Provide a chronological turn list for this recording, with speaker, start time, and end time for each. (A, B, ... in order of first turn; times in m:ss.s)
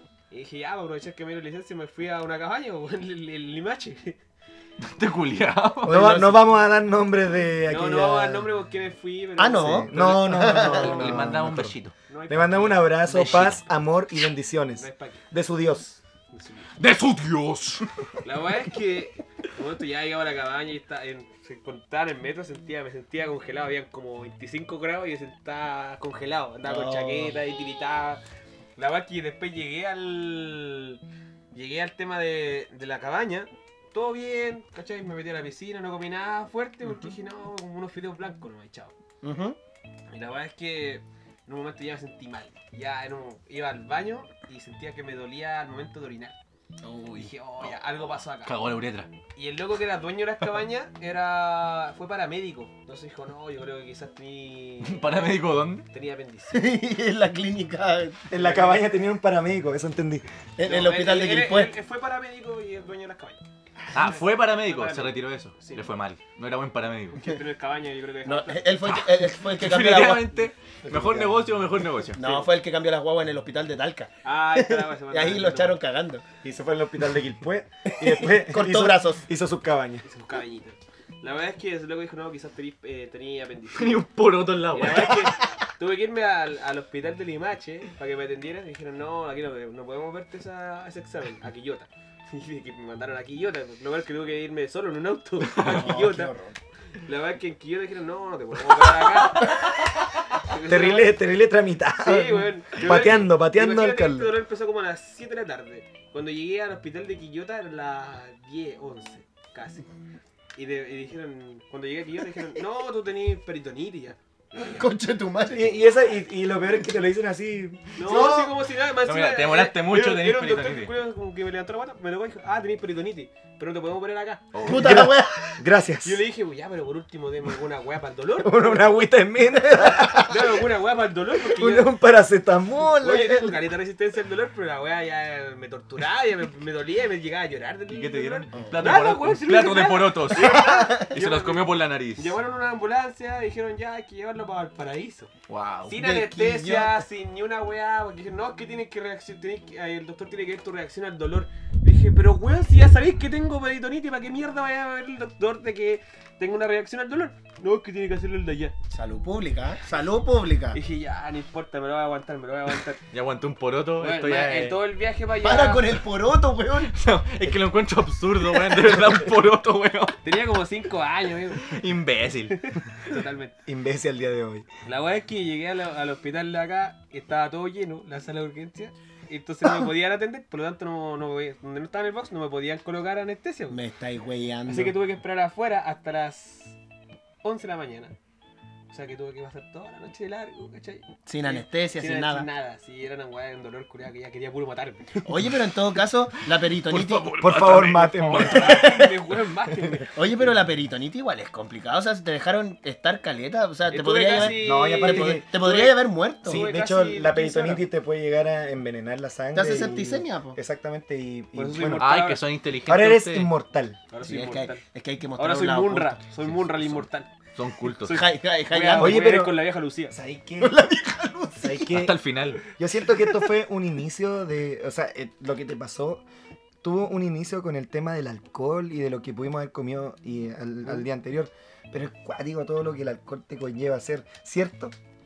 0:00.3-0:04.2 A
0:04.8-0:06.2 B
0:05.8-0:08.5 C
0:05.9-0:06.4 D
0:07.7-0:11.1 A
0:09.4-0:11.1 D
0:09.5-0:11.8 C
0:10.7-0:11.9 B
0:12.1-0:13.6 A
0:12.3-0:16.0 C
0:13.0-0:13.6 B
0:14.8-0:15.2 A
0:16.3-0:16.7 A
0:16.8-0:17.9 B
0:18.2-0:28.2 A
0:26.6-0:27.4 D
0:28.8-0:31.0 A
0:31.5-0:38.9 A
0:36.8-0:37.1 D
0:39.2-0:39.6 D
0:40.1-0:46.4 A
0:46.8-0:47.3 D
0:47.1-0:48.5 A
0:47.6-0:49.1 B
0:49.4-0:55.3 A
0:54.8-0:55.9 B
0:55.9-0:56.7 A
0:56.5-0:58.3 D
0:58.3-1:00.3 C
0:58.3-0:58.8 A
1:00.6-1:01.7 D
1:00.6-1:03.4 A
1:03.9-1:07.2 B
1:04.0-1:05.9 A
1:07.1-1:08.7 A
1:08.2-1:11.5 D
1:08.8-1:12.2 B
1:12.1-1:16.2 D
1:12.2-1:12.5 A
1:14.2-1:15.8 A
1:16.4-1:20.0 C
1:18.0-1:19.2 D
1:20.0-1:24.0 A
1:23.7-1:25.4 B
1:24.7-1:36.3 A
1:35.5-1:36.6 D
1:37.0-1:39.7 A
1:40.3-1:41.1 A
1:40.6-1:44.3 C
1:42.0-1:49.9 A
1:50.5-1:54.8 A
1:54.7-1:55.8 D
1:55.5-1:58.5 C
1:57.9-2:04.6 A
1:59.0-2:00.9 B
2:04.5-2:05.0 B
2:04.6-2:05.6 D
2:04.7-2:06.2 C
2:06.0-2:09.0 A
2:08.4-2:10.6 C
2:10.2-2:11.9 A
2:11.4-2:13.6 C
2:13.0-2:25.3 A
2:17.9-2:22.4 B
2:18.5-2:18.8 D
2:20.6-2:21.0 D
2:25.5-2:26.0 B
2:25.9-2:38.7 A
2:25.9-2:27.0 D
2:38.9-2:40.8 D
2:40.7-2:43.0 A
2:43.1-2:44.8 B
2:44.0-2:45.9 A
2:45.4-2:46.9 D
2:46.9-2:50.2 B
2:50.2-2:51.7 A
2:51.6-2:52.8 B
2:52.6-2:53.5 A
2:53.6-2:54.7 C
2:54.8-3:03.8 A
3:03.7-3:05.0 D
3:04.7-3:06.8 A
3:07.4-3:08.1 A
3:08.9-3:15.3 A
3:11.3-3:12.5 D
3:15.2-3:17.3 D
3:16.8-3:18.9 B
3:17.4-3:18.9 C
3:18.3-3:20.2 A
3:18.6-3:19.1 D
3:19.7-3:20.0 C
3:20.1-3:26.7 D
3:23.9-3:27.9 A
3:24.4-3:25.5 C
3:26.4-3:32.1 C
3:29.5-3:30.6 D
3:31.5-3:32.4 A
3:32.0-3:33.5 B
3:32.8-3:34.0 C
3:34.1-3:34.8 A
3:34.2-3:36.2 D
3:35.4-3:37.3 A
3:36.4-3:37.0 B
3:37.6-3:38.2 B
3:38.0-3:40.1 A
3:38.0-3:39.3 D
3:39.0-3:40.8 C
3:40.6-3:41.9 D
3:41.6-3:42.2 C
3:41.9-3:42.6 B
3:42.7-3:46.2 C
3:46.8-3:54.9 C